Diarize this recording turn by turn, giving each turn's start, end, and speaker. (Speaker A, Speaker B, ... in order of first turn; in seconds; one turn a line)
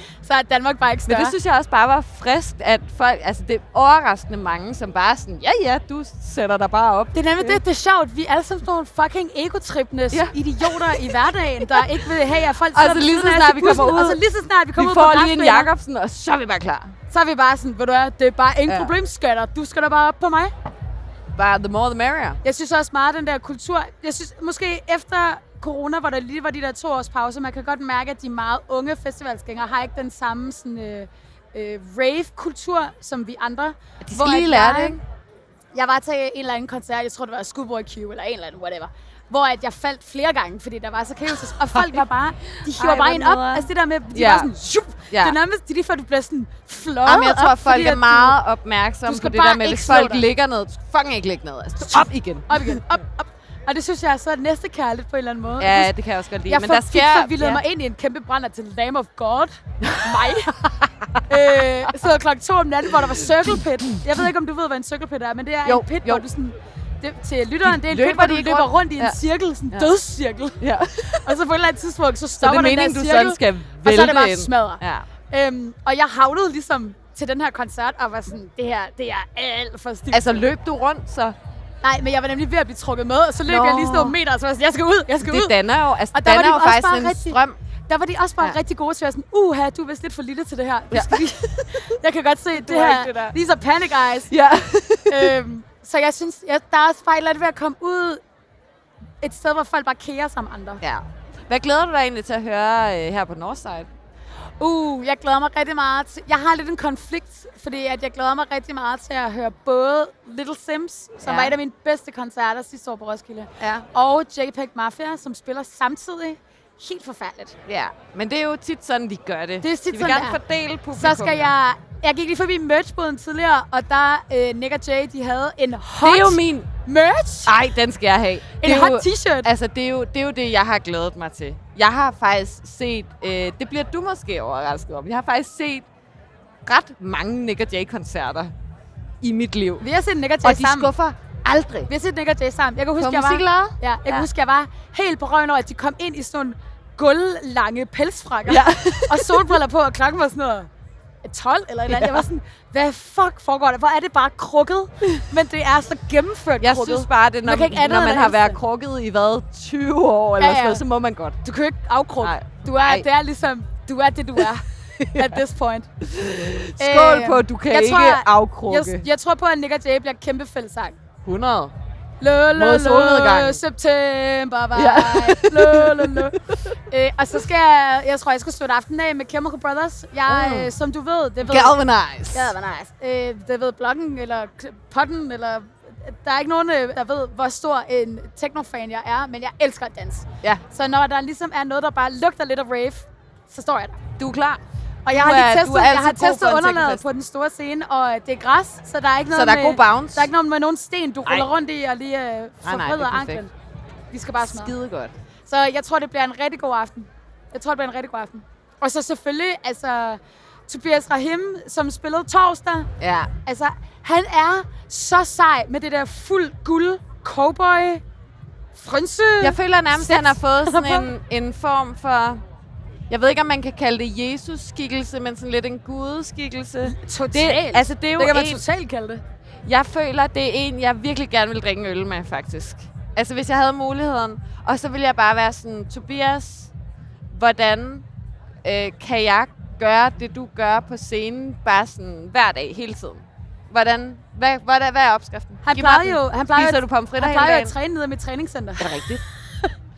Speaker A: 0.2-1.3
Speaker B: 1.1-7.6
Speaker A: 7.1-15.7
Speaker B: 10.1-12.0
Speaker B: 12.7-14.2
Speaker B: 14.8-16.9
Speaker A: 17.1-20.5
Speaker B: 18.7-18.9
Speaker B: 21.3-22.4
Speaker A: 22.4-35.0
Speaker B: 34.0-35.0
Speaker A: 35.7-48.4
Speaker B: 41.4-42.0
Speaker B: 42.6-44.5
Speaker B: 45.1-45.4
Speaker B: 47.0-52.8
Speaker A: 49.0-50.2
Speaker A: 51.8-55.9
Speaker B: 55.6-57.6
Speaker A: 56.5-60.5
Speaker B: 59.8-61.0
Speaker A: 61.3-70.6
Speaker B: 63.3-63.6
Speaker B: 65.6-66.2
Speaker B: 67.6-69.2
Speaker B: 70.6-71.4
Speaker A: 71.1-80.4
Speaker B: 72.4-75.1
Speaker B: 80.1-81.3
Speaker A: 81.8-85.5
Speaker B: 83.4-84.2
Speaker B: 85.2-87.6
Speaker A: 86.1-94.3
Speaker B: 90.9-91.8
Speaker B: 92.5-93.3
Speaker B: 94.3-95.3
Speaker A: 95.1-98.2
Speaker A: 99.2-100.8
Speaker B: 100.8-103.9
Speaker A: 104.6-117.5
Speaker B: 111.2-111.5
Speaker B: 117.7-121.5
Speaker A: 119.6-120.4
Speaker A: 120.9-127.5
Speaker B: 126.0-126.7
Speaker B: 127.5-135.8
Speaker A: 128.6-129.5
Speaker B: 136.6-138.5
Speaker B: 139.2-139.8
Speaker A: 139.8-140.9
Speaker B: 140.4-141.9
Speaker A: 141.9-150.7
Speaker B: 143.0-144.3
Speaker B: 148.5-149.5
Speaker A: 151.2-158.6
Speaker B: 151.9-152.2
Speaker B: 156.6-161.4
Speaker A: 160.4-160.8
Speaker A: 161.4-165.9
Speaker B: 162.2-163.1
Speaker B: 165.0-165.4
Speaker B: 166.0-169.1
Speaker A: 166.8-170.9
Speaker B: 171.2-171.7
Speaker A: 172.2-176.4
Speaker B: 172.5-173.6
Speaker B: 174.7-176.7
Speaker A: 176.9-181.8
Speaker B: 180.2-180.7
Speaker B: 181.4-182.5
Speaker A: 182.3-194.0
Speaker B: 194.2-197.0
Speaker A: 195.1-203.5
Speaker B: 199.3-200.3
Speaker B: 202.6-203.4
Speaker A: 204.1-204.7
Speaker B: 204.4-205.1
Speaker A: 205.4-212.9
Speaker B: 213.0-213.3
Speaker A: 213.4-218.0
Speaker A: 218.7-221.1
Speaker B: 219.4-222.4
Speaker B: 223.1-228.6
Speaker A: 226.8-229.2
Speaker B: 229.6-236.7
Speaker B: 237.3-238.0
Speaker B: 238.6-247.7
Speaker A: 245.6-249.0
Speaker B: 248.8-249.2